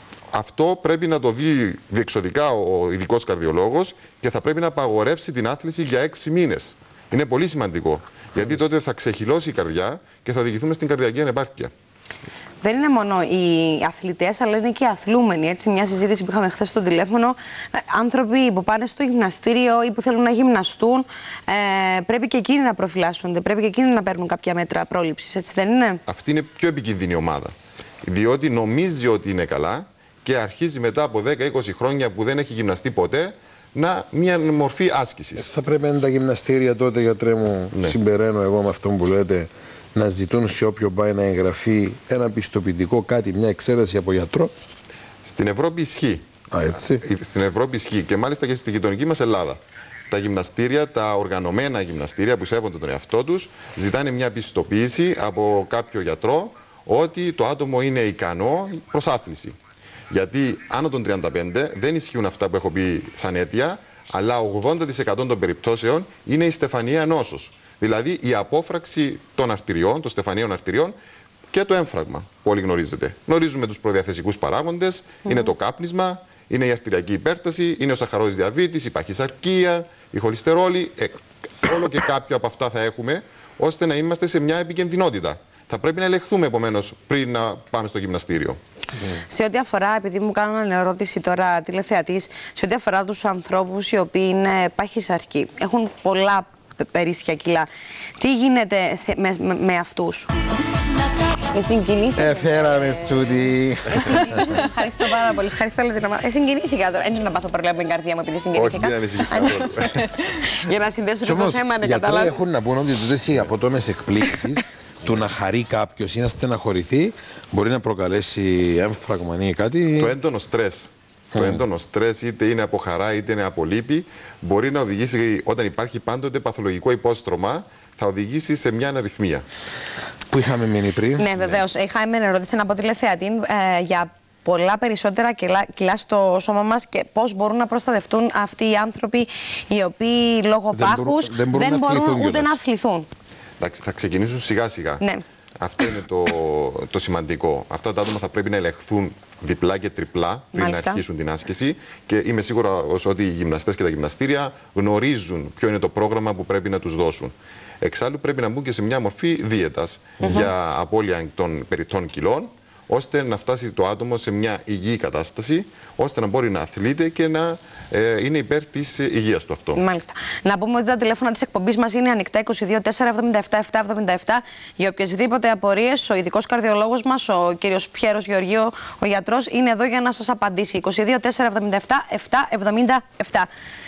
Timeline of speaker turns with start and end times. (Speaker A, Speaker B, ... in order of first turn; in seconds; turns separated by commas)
Speaker A: 0.3-11.7, Speaker B: 12.6-26.0, Speaker A: 26.1-27.5, Speaker A: 28.1-35.5, Speaker C: 35.4-44.5, Speaker A: 45.2-46.3, Speaker C: 46.5-47.0, Speaker A: 47.0-59.6, Speaker A: 60.1-71.0, Speaker A: 71.5-88.6, Speaker B: 89.3-100.3, Speaker B: 101.5-103.2, Speaker C: 102.2-104.7, Speaker B: 104.0-112.4, Speaker A: 108.5-110.1, Speaker C: 111.2-120.2, Speaker A: 120.0-129.5, Speaker C: 121.3-121.6, Speaker C: 130.3-131.3, Speaker B: 131.2-143.1, Speaker A: 131.3-131.6, Speaker C: 140.7-142.6, Speaker A: 143.6-145.0, Speaker A: 145.6-169.8, Speaker B: 150.6-151.0, Speaker C: 160.2-160.5, Speaker B: 160.2-160.5, Speaker B: 169.8-183.5